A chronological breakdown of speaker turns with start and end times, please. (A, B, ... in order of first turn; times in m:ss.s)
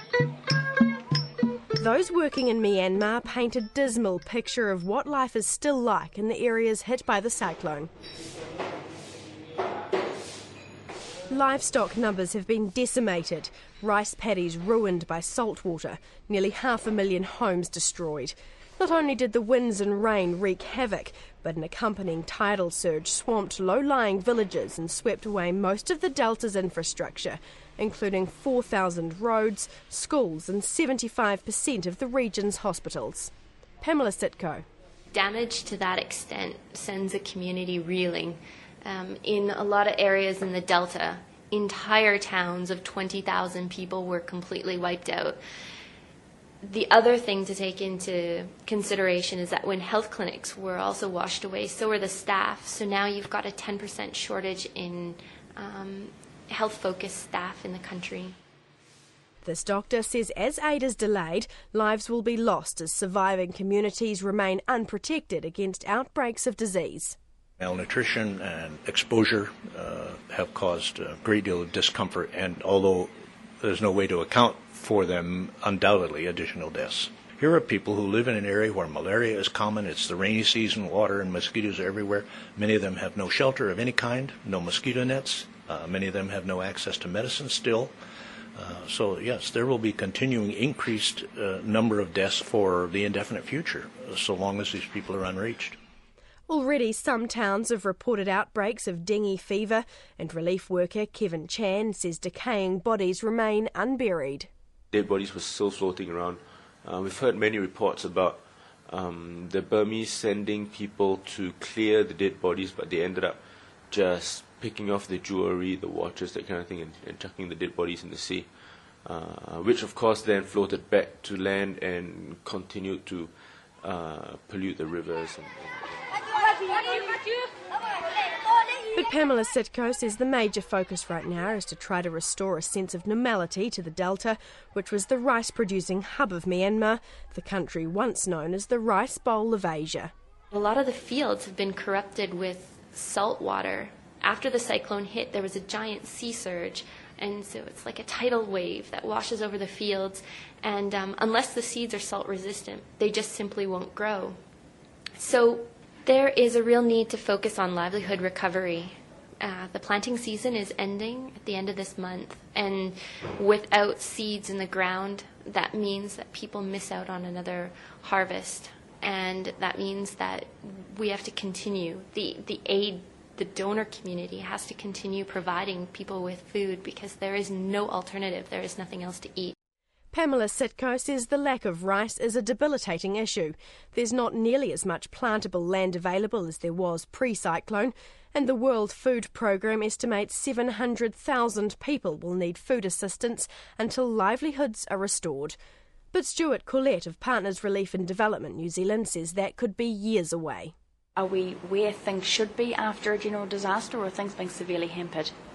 0:01.8-0:07.9 A
0:11.3-0:34.6 A
0:35.1-0:45.4 B
0:46.6-0:58.4 B
0:59.4-1:07.2 A
1:07.6-1:27.9 C
1:28.6-1:35.8 C
1:36.5-1:44.5 A
1:44.9-1:53.4 D
1:53.9-1:58.5 D
1:59.0-2:06.1 D
2:09.0-2:20.1 A
2:20.5-2:34.4 B
2:35.2-2:59.6 B
3:00.1-3:15.6 A
3:16.1-3:20.7 A
3:21.2-3:25.3 E